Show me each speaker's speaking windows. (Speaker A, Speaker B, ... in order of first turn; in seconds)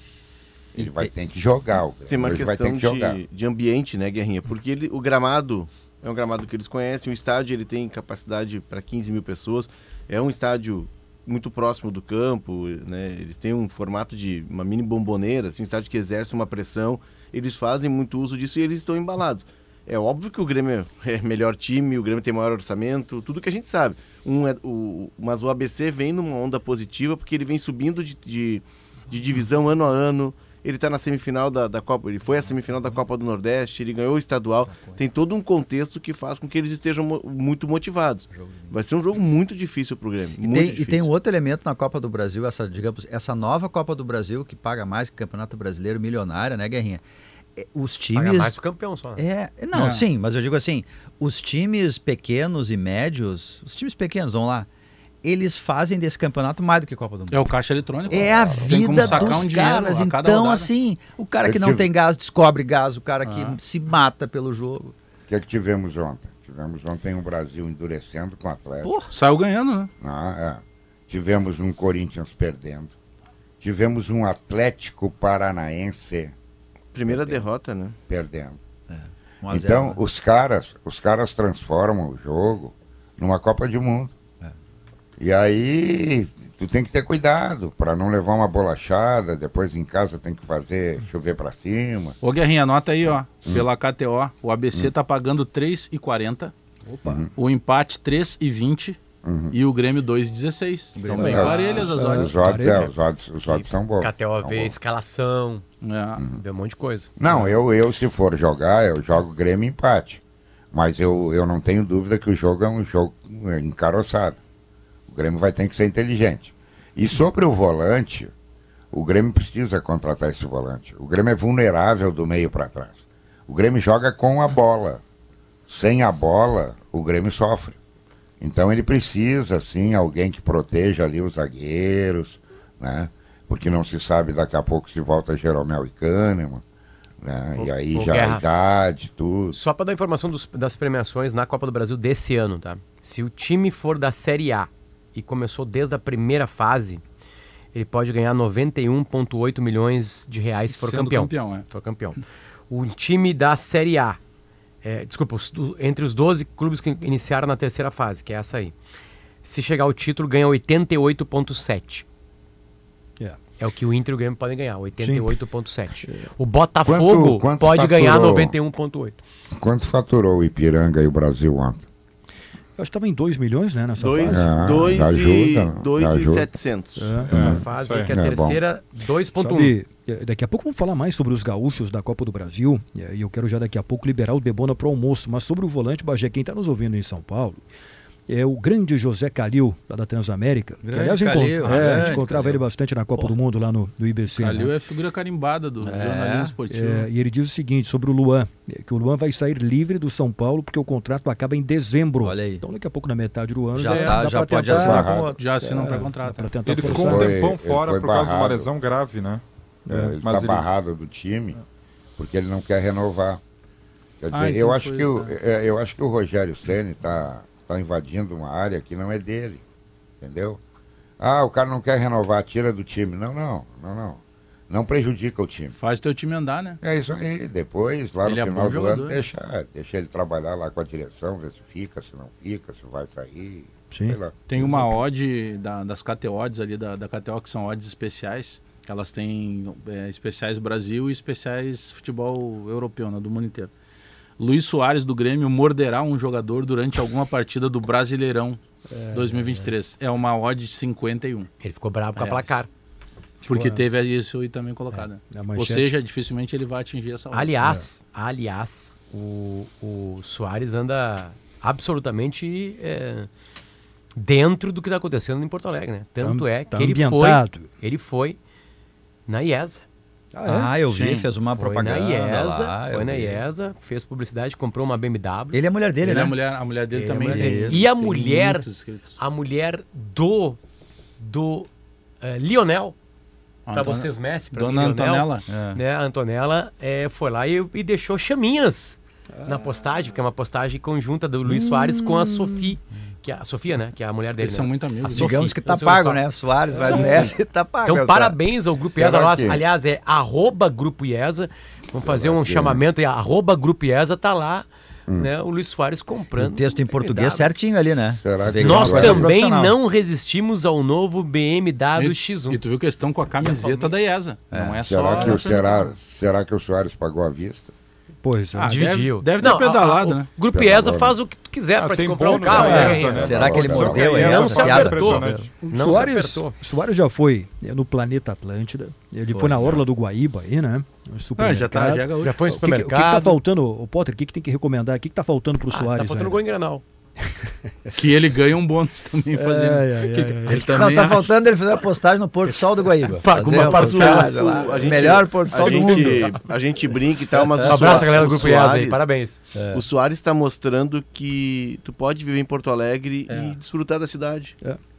Speaker A: 0.8-1.1, 34.7-35.0, 38.3-38.8, 40.4-47.0, 47.6-48.5, 49.2-54.7, 55.2-57.5, 58.1-64.9, 68.8-69.1, 78.9-80.0, 101.0-101.9, 190.8-192.6, 195.8-196.6, 202.2-202.6, 203.7-205.4, 270.4-273.4, 275.5-276.4, 277.2-277.9, 285.5-285.8, 291.5-292.6, 295.1-298.4, 306.4-309.8, 314.5-315.0, 323.1-325.5, 329.3-329.8, 340.5-346.3, 349.5-349.8
Speaker B: 0.8-3.2, 59.0-59.4, 61.4-61.9, 65.3-68.9, 70.0-72.9, 73.6-76.3, 77.1-77.4, 78.1-78.6, 79.5-84.2, 85.2-92.2, 97.0-97.3, 99.2-99.6, 101.2-104.8, 107.2-110.2, 110.7-114.4, 115.1-118.3, 118.9-125.0, 125.7-127.8, 128.4-136.6, 137.2-139.6, 166.8-168.6, 169.5-171.9, 174.3-176.5, 177.3-178.6, 204.7-205.3, 206.8-208.7, 209.9-211.6, 212.2-213.4, 214.2-219.6, 220.2-220.6, 221.2-225.8, 226.8-234.4, 299.0-299.6, 302.0-302.8, 308.2-309.3, 314.9-317.7, 320.5-321.2, 322.6-324.1
Speaker C: 2.1-41.1, 76.9-78.0, 174.0-177.2, 343.5-349.0, 349.7-354.6
Speaker D: 48.1-49.2, 102.6-102.9, 103.5-105.6, 106.3-107.1, 137.6-138.4, 139.5-147.0, 147.7-154.2, 154.8-158.8, 159.4-162.1, 163.6-169.2, 177.3-179.8, 251.6-252.7, 257.3-263.3, 264.2-268.4, 269.3-269.9, 271.8-275.6, 276.9-280.6, 281.2-281.7, 282.2-283.0, 283.7-296.2, 296.8-297.2, 297.9-307.5, 308.6-312.6, 313.4-314.0, 318.7-326.6, 332.2-333.4, 335.7-336.8, 343.2-344.9, 347.6-349.4
Speaker E: 49.7-50.1, 57.3-60.7, 63.2-63.6, 69.1-69.9, 92.2-96.5, 97.3-99.0, 99.5-102.5, 105.8-106.2, 150.7-151.7, 191.6-192.2, 194.3-197.1, 203.8-207.3, 214.3-215.3, 225.8-226.8, 228.2-229.2, 234.5-243.7, 244.4-248.6, 249.1-251.5, 252.2-252.6, 253.4-257.6, 270.9-271.6, 276.0-279.2, 283.7-285.5, 294.4-295.5, 296.8-297.4, 312.0-315.8, 318.6-320.3, 331.4-332.4, 337.9-341.5, 345.6-346.4, 347.3-348.5, 353.3-353.6
Speaker F: 101.7-102.9, 165.0-165.3, 172.8-174.7, 177.0-177.3, 179.4-187.6, 188.3-194.7, 196.7-207.3, 209.9-210.2, 233.9-234.8, 248.9-249.7, 253.4-253.8, 255.3-255.9, 266.2-267.7, 270.3-270.7, 289.3-289.7, 296.8-297.0, 318.2-318.8, 322.3-323.0, 325.6-336.4, 337.3-337.9, 339.3-340.6
Speaker G: 177.3-178.1, 206.7-209.4, 210.2-210.6, 321.8-325.5